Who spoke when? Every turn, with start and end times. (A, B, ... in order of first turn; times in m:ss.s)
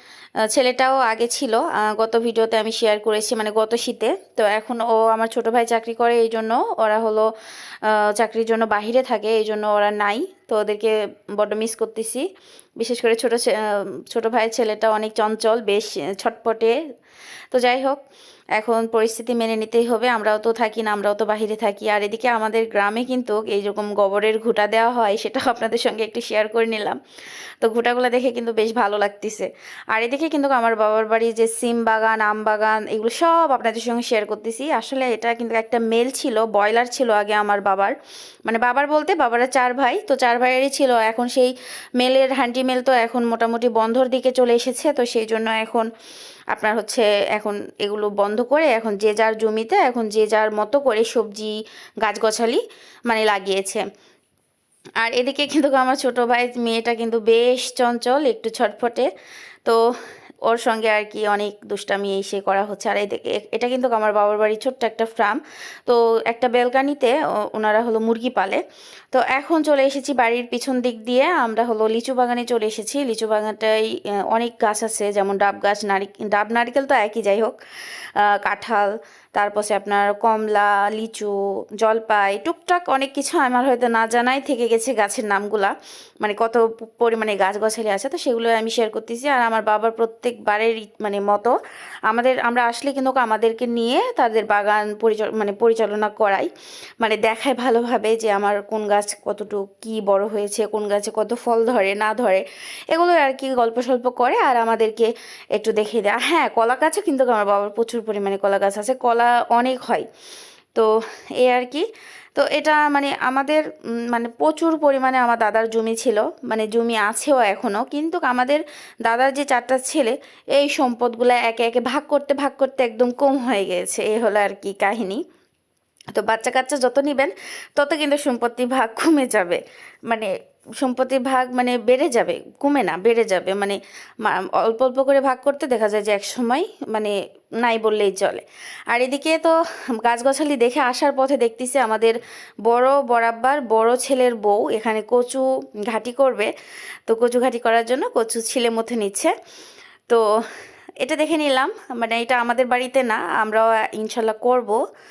0:00.5-0:07.3 A
0:07.8-0:12.2 A
0:12.8-0:16.8 A
0:17.5-0:18.0 A
0:18.6-0:27.0 A
0:27.6-0:45.9 A
0:46.5-0:53.8 A
0:55.0-0:59.1 A
1:00.4-1:08.6 A
1:09.1-1:17.6 A
1:18.2-1:31.6 A
1:32.1-1:50.1 A
1:50.7-2:05.2 A
2:06.1-2:26.5 A
2:27.1-2:29.3 A
2:31.0-2:34.8 A